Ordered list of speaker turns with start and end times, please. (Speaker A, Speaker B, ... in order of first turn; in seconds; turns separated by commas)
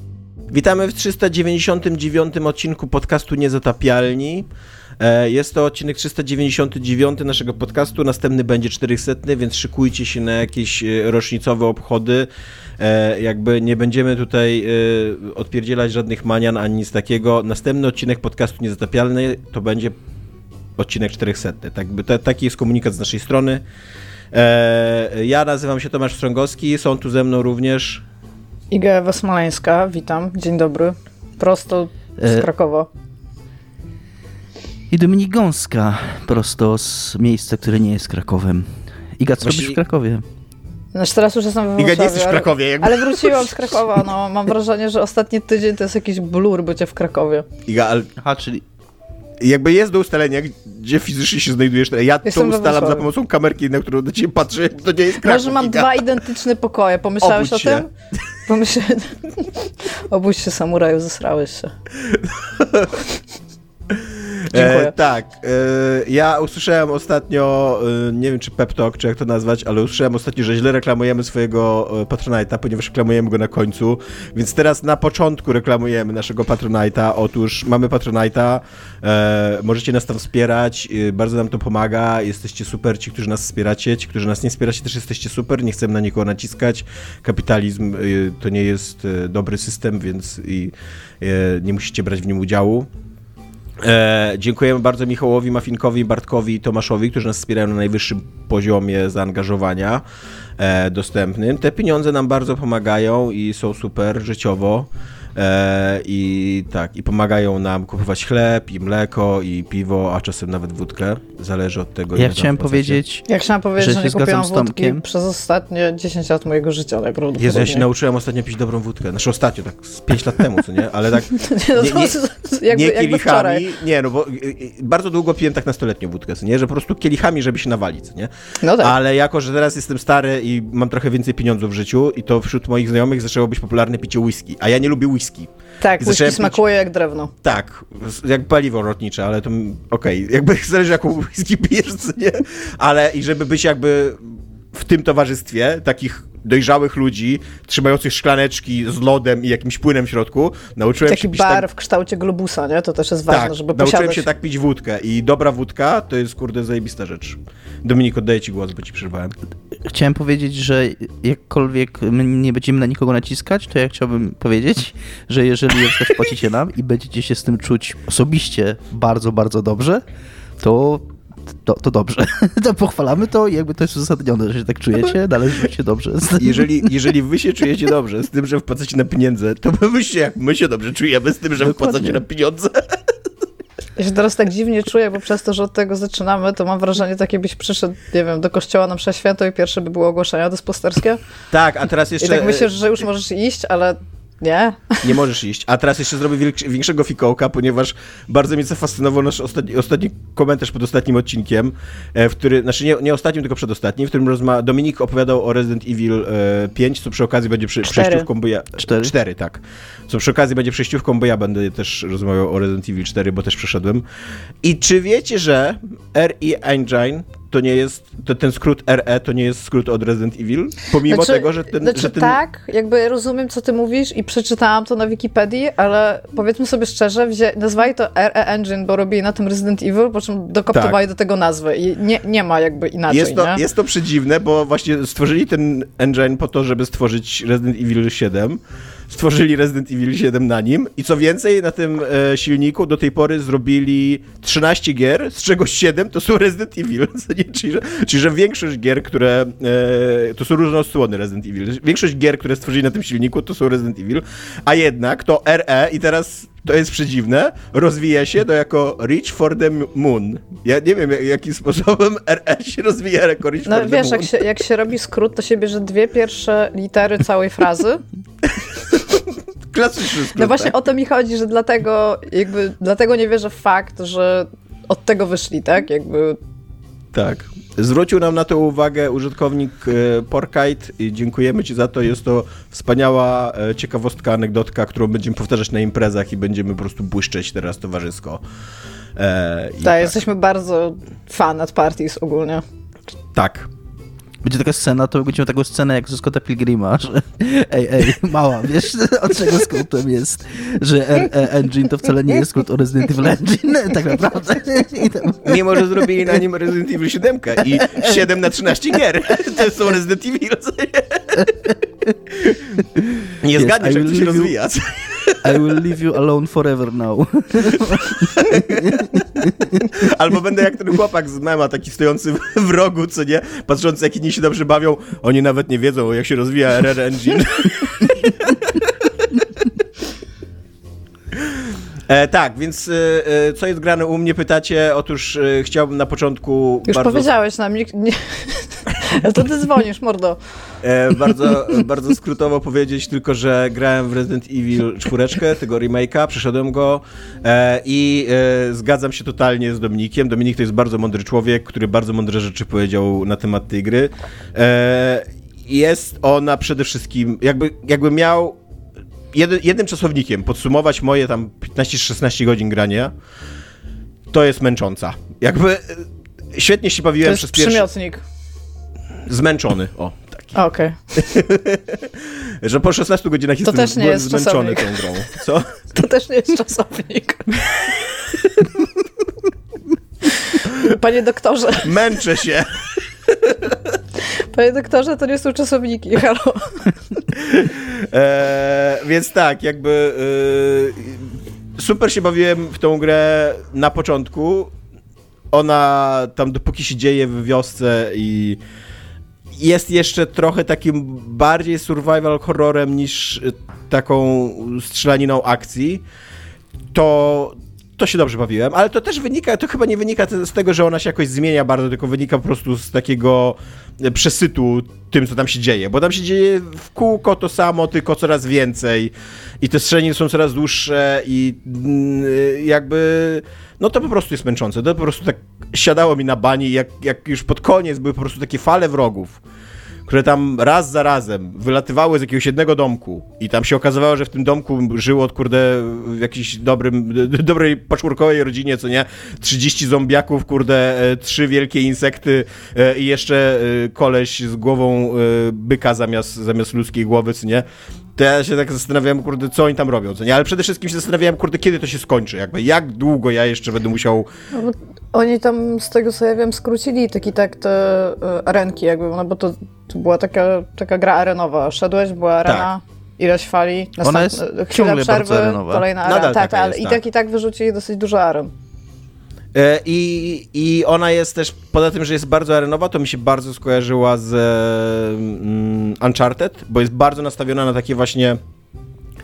Speaker A: 0.5-4.5, Speaker A: 5.0-12.3, Speaker A: 12.8-19.9, Speaker A: 20.8-23.6, Speaker A: 24.3-28.0, Speaker B: 28.7-32.9, Speaker C: 32.2-32.5, Speaker C: 34.9-40.2, Speaker A: 39.4-39.8, Speaker B: 40.9-47.5, Speaker A: 41.8-43.7, Speaker A: 47.6-48.1, Speaker C: 48.2-48.6, Speaker A: 49.4-56.0, Speaker B: 52.2-53.0, Speaker B: 55.2-57.9, Speaker A: 57.2-57.9, Speaker B: 58.5-61.7, Speaker A: 62.0-63.0, Speaker A: 63.9-92.9, Speaker B: 64.5-64.9, Speaker A: 93.8-100.0, Speaker A: 100.6-113.0, Speaker C: 112.1-113.2, Speaker B: 113.2-117.8, Speaker C: 113.8-115.0, Speaker A: 117.4-122.2, Speaker B: 121.3-123.6, Speaker A: 122.7-135.5, Speaker B: 128.6-128.9, Speaker B: 135.8-137.3, Speaker A: 136.0-136.6, Speaker A: 137.4-144.2, Speaker A: 144.7-151.6, Speaker B: 151.1-154.2, Speaker A: 153.3-159.3, Speaker C: 159.8-170.0, Speaker C: 170.6-176.9, Speaker A: 176.4-182.9, Speaker C: 181.6-182.2, Speaker B: 184.0-191.2, Speaker A: 191.5-192.7, Speaker B: 192.2-195.1, Speaker A: 195.0-214.0, Speaker B: 207.8-208.3, Speaker C: 208.8-209.1, Speaker A: 214.6-222.4, Speaker B: 221.1-233.6, Speaker A: 233.1-264.4, Speaker B: 263.6-268.0, Speaker A: 268.8-270.7, Speaker B: 270.4-276.4, Speaker A: 277.1-288.4, Speaker A: 289.1-290.2, Speaker B: 289.8-292.6, Speaker A: 293.3-293.7, Speaker C: 294.4-306.1, Speaker A: 305.4-311.5, Speaker C: 307.6-308.1, Speaker C: 312.9-314.5, Speaker A: 313.4-315.9, Speaker C: 315.4-319.9, Speaker A: 317.7-319.2, Speaker A: 319.7-329.3, Speaker A: 332.1-337.3, Speaker B: 336.9-340.4, Speaker A: 340.8-358.6, Speaker A: 359.3-363.1, Speaker A: 364.3-367.9, Speaker B: 367.2-368.2, Speaker A: 369.3-370.6, Speaker B: 370.5-370.9, Speaker A: 371.1-375.7, Speaker B: 373.6-375.1, Speaker B: 375.9-377.9, Speaker B: 380.4-382.2, Speaker A: 381.8-383.8, Speaker B: 384.4-386.9, Speaker A: 387.3-394.7, Speaker A: 395.5-398.6, Speaker A: 399.6-406.0, Speaker A: 406.9-429.4, Speaker A: 430.1-454.3, Speaker B: 454.5-468.5, Speaker A: 462.4-462.7, Speaker C: 464.0-465.9, Speaker A: 466.0-467.0, Speaker A: 469.5-478.4